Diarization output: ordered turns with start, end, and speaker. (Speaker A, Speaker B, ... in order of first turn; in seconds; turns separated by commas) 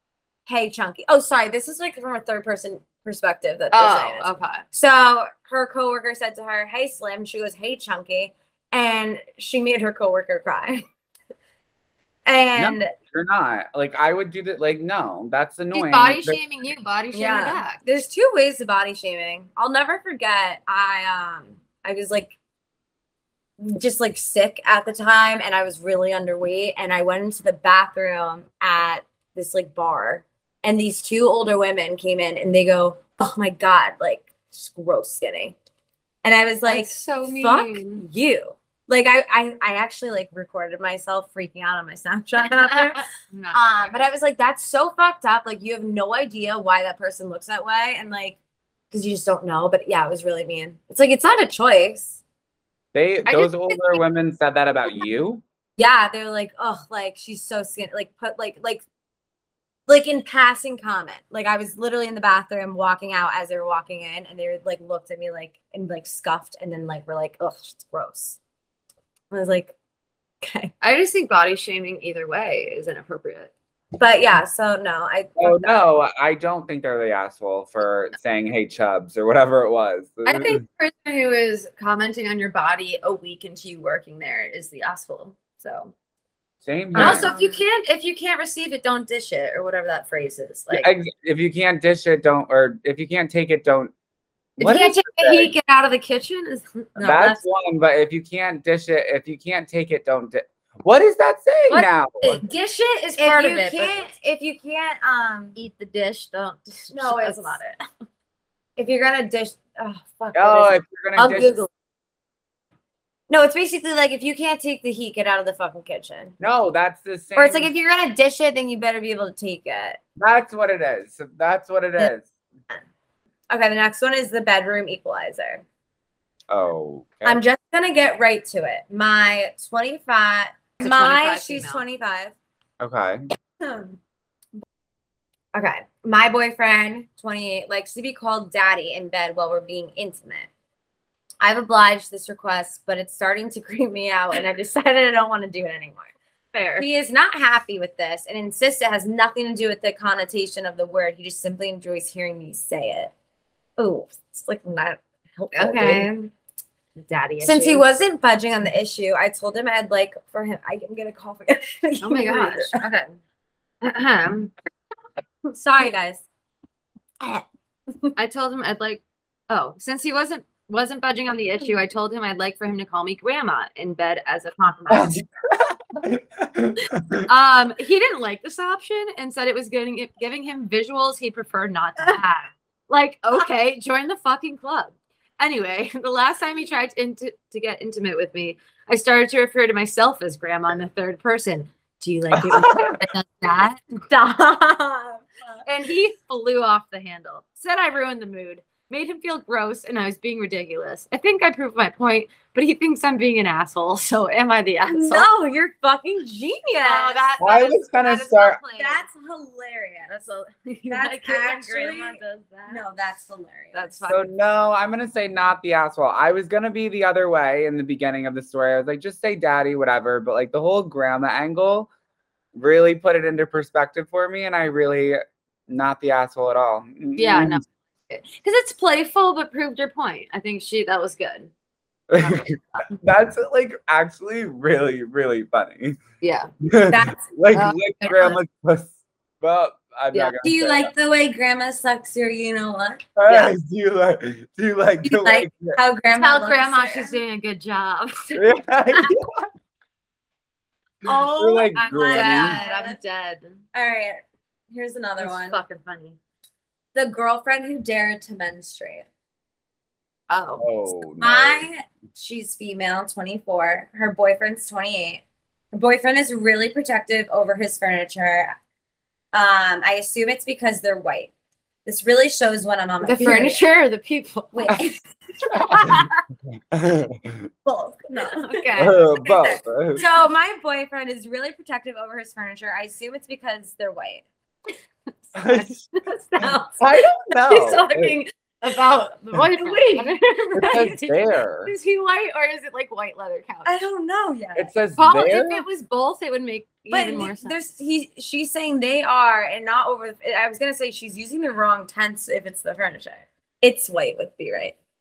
Speaker A: 0.5-10.8, Speaker B: 3.7-4.6, Speaker A: 12.2-12.9, Speaker C: 12.6-16.4, Speaker B: 15.7-17.8, Speaker A: 17.1-22.3, Speaker A: 23.6-35.5, Speaker A: 36.2-48.4, Speaker B: 36.6-38.0, Speaker B: 43.2-43.9, Speaker A: 48.9-52.2, Speaker C: 52.9-55.4, Speaker B: 53.2-54.0, Speaker A: 55.8-58.8, Speaker A: 59.9-68.4, Speaker A: 69.3-69.7, Speaker A: 70.4-70.7, Speaker B: 70.8-73.5, Speaker A: 74.0-75.8, Speaker C: 75.4-80.6, Speaker B: 80.2-85.9, Speaker C: 86.6-87.3, Speaker A: 86.9-87.6, Speaker B: 86.9-90.9, Speaker C: 90.7-93.9, Speaker C: 94.6-95.5, Speaker B: 94.6-97.1, Speaker A: 96.9-97.4, Speaker C: 97.0-102.4, Speaker B: 101.7-104.1, Speaker A: 103.2-105.5, Speaker B: 105.5-107.6, Speaker A: 106.9-107.8, Speaker A: 108.8-111.7, Speaker C: 110.3-111.6, Speaker A: 113.3-116.3, Speaker C: 116.4-117.7, Speaker A: 117.3-120.0, Speaker C: 120.2-122.3, Speaker A: 123.5-125.6, Speaker C: 126.5-127.4, Speaker A: 127.2-132.3, Speaker B: 130.8-131.8, Speaker C: 132.8-133.2, Speaker A: 133.6-134.0, Speaker A: 135.5-140.5, Speaker A: 141.4-146.1, Speaker B: 146.5-146.8, Speaker A: 146.8-153.1, Speaker A: 153.8-156.3, Speaker B: 155.5-156.1, Speaker B: 156.9-157.9, Speaker A: 157.4-162.8, Speaker B: 162.0-163.1, Speaker B: 163.8-164.5, Speaker A: 165.5-166.2, Speaker A: 167.2-168.1, Speaker B: 168.2-175.2, Speaker C: 174.9-177.3, Speaker B: 177.2-193.8, Speaker C: 192.4-193.0, Speaker A: 194.1-195.6, Speaker B: 195.7-205.3, Speaker A: 204.9-210.1, Speaker B: 206.8-207.8, Speaker C: 207.4-208.6, Speaker B: 208.7-209.0, Speaker B: 210.1-212.8, Speaker A: 210.9-213.9, Speaker B: 213.7-214.2, Speaker C: 214.1-221.9, Speaker C: 222.5-227.6, Speaker B: 227.2-231.5, Speaker C: 232.1-236.0, Speaker B: 232.2-233.0, Speaker B: 236.2-236.5, Speaker C: 236.6-240.9, Speaker A: 236.9-237.3, Speaker B: 237.5-238.4, Speaker A: 240.4-243.1, Speaker C: 243.2-245.8, Speaker A: 245.0-247.2, Speaker B: 246.2-248.4, Speaker C: 248.3-249.4, Speaker A: 251.0-253.0, Speaker C: 251.1-252.6, Speaker B: 252.1-253.6, Speaker A: 253.7-255.6, Speaker B: 255.2-256.2, Speaker A: 256.9-259.1, Speaker B: 260.3-260.6, Speaker C: 260.6-261.7, Speaker A: 261.2-268.6, Speaker A: 269.3-271.3, Speaker A: 271.8-273.6, Speaker B: 273.0-274.9, Speaker A: 274.5-275.0, Speaker C: 275.5-276.1, Speaker A: 275.7-276.1, Speaker C: 276.7-277.5, Speaker A: 277.6-284.2, Speaker B: 278.2-279.0, Speaker C: 278.8-280.1, Speaker C: 285.3-285.9, Speaker A: 286.1-286.8, Speaker C: 286.8-288.1, Speaker B: 287.4-291.1, Speaker A: 289.5-291.0, Speaker C: 290.6-291.7, Speaker B: 291.6-293.8, Speaker A: 293.6-294.7, Speaker C: 294.6-295.6, Speaker B: 295.0-297.6, Speaker A: 296.9-304.8